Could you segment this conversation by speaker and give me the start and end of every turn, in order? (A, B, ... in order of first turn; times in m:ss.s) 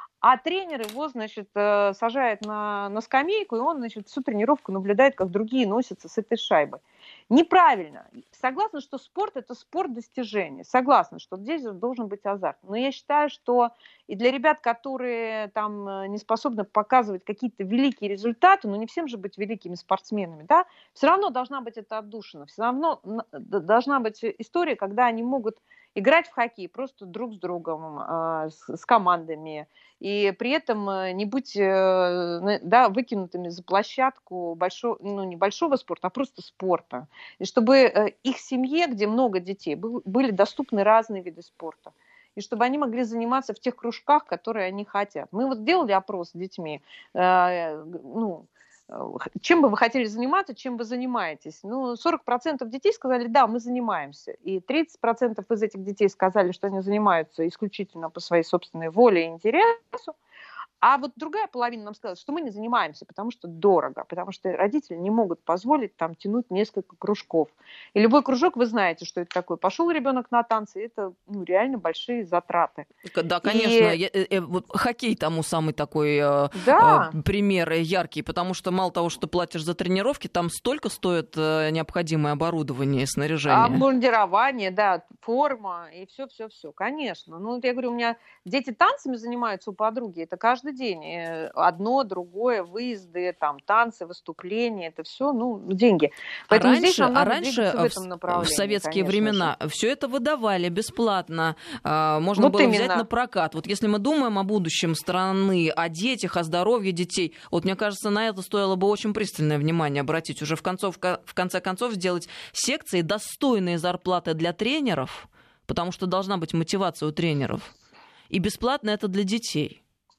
0:00.2-1:00.2 A
1:00.8-1:12.9 A
1:13.1-1:23.8 B
1:13.4-1:14.0 A
1:16.6-1:17.1 A
1:23.5-1:39.5 A
1:36.5-1:57.7 B
1:42.4-1:43.0 A
1:58.3-1:59.8 B